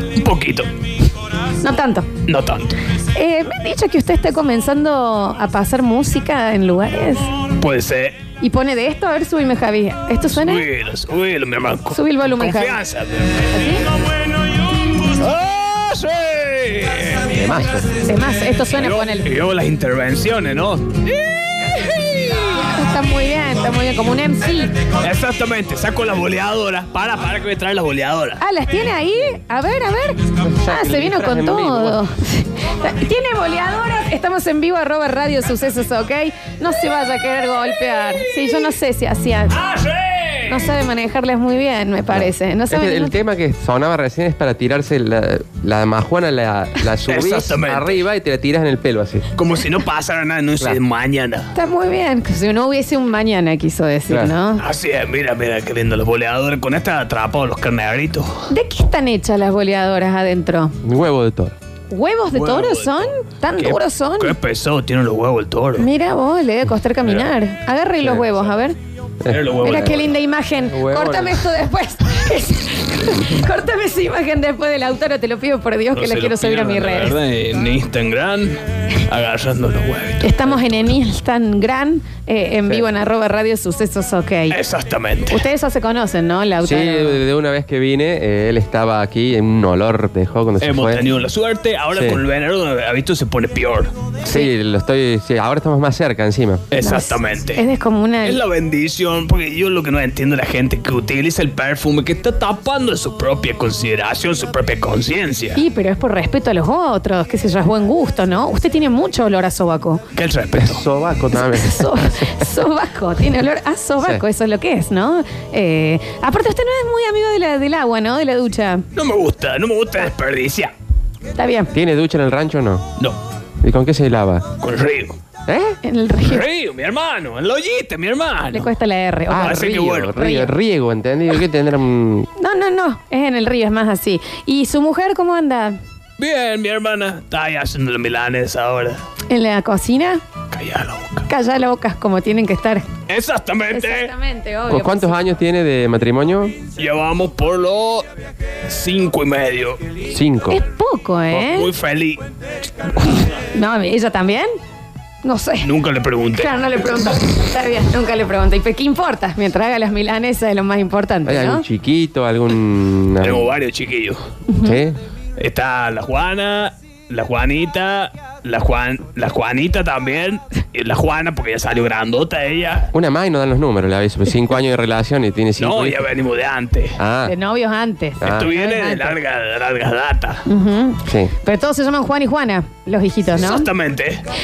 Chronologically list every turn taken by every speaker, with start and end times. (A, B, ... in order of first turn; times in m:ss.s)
0:00.2-0:00.7 A
0:01.6-0:02.1 B
0:02.3-0:02.8 A
0:03.1-0:07.3 B
0:07.6-0:08.2 A
0:08.4-0:10.7 B
0:10.3-0:13.4 A
0:11.9-0:12.8 B
0:13.5-0:13.8 B
0:15.0-0:17.4 A
0:17.3-0:17.9 C
0:18.0-0:19.3 B
0:18.7-0:22.6 A
0:22.4-0:24.8 B
0:24.9-0:28.4 A
0:28.4-0:39.6 B
0:30.4-0:32.0 C
0:37.9-0:38.8 A
0:39.5-0:40.7 A
0:40.5-0:43.2 B
0:42.1-0:49.3 C
0:47.0-0:48.0 A
0:49.4-0:51.5 A
0:51.5-0:54.6 B
0:54.1-0:54.4 C
0:54.6-0:58.5 A
0:58.5-1:00.8 B
1:00.8-1:01.6 C
1:01.9-1:04.4 B
1:02.3-1:05.9 A
1:05.8-1:08.8 B
1:08.0-1:08.3 C
1:09.2-1:10.0 C
1:09.3-1:10.1 A
1:09.6-1:17.2 B
1:10.6-1:11.5 C
1:15.9-1:20.8 A
1:20.2-1:24.6 B
1:24.5-1:25.4 A
1:25.3-1:27.2 B
1:26.6-1:31.0 C
1:30.6-1:33.9 A
1:31.9-1:32.2 C
1:34.2-1:36.7 C
1:34.3-1:34.5 B
1:36.7-1:37.6 A
1:36.8-1:38.4 B
1:38.2-1:45.6 A
1:45.6-1:50.0 B
1:50.2-1:50.8 A
1:50.5-1:52.5 C
1:51.3-1:58.8 B
1:59.0-2:00.7 A
2:01.4-2:01.7 B
2:01.7-2:02.8 C
2:03.6-2:04.5 C
2:04.6-2:05.2 A
2:05.5-2:05.8 C
2:05.8-2:06.5 B
2:06.2-2:08.7 A
2:08.5-2:10.5 B
2:09.3-2:12.3 C
2:09.3-2:10.2 A
2:12.4-2:15.8 B
2:16.2-2:19.0 A
2:19.3-2:20.2 B
2:20.5-2:21.3 A
2:21.3-2:22.9 B
2:23.1-2:24.1 A
2:23.7-2:25.2 B
2:24.7-2:26.6 C
2:26.8-2:28.1 A
2:28.7-2:29.8 A
2:30.1-2:30.6 C
2:30.5-2:31.7 B
2:31.3-2:32.2 A
2:33.4-2:34.5 B
2:35.2-2:35.7 B
2:35.6-2:36.5 A
2:36.3-2:41.7 B
2:41.3-2:43.5 C
2:43.2-2:44.2 A
2:44.5-2:44.8 B
2:44.6-2:45.0 C
2:45.4-2:52.9 A
2:52.9-2:56.0 C
2:55.6-2:57.0 A
2:57.0-2:57.4 C
2:57.2-2:59.2 B
2:58.2-2:58.5 C
2:58.2-3:00.5 A
3:00.5-3:03.7 B
3:01.1-3:01.3 C
3:03.4-3:04.2 A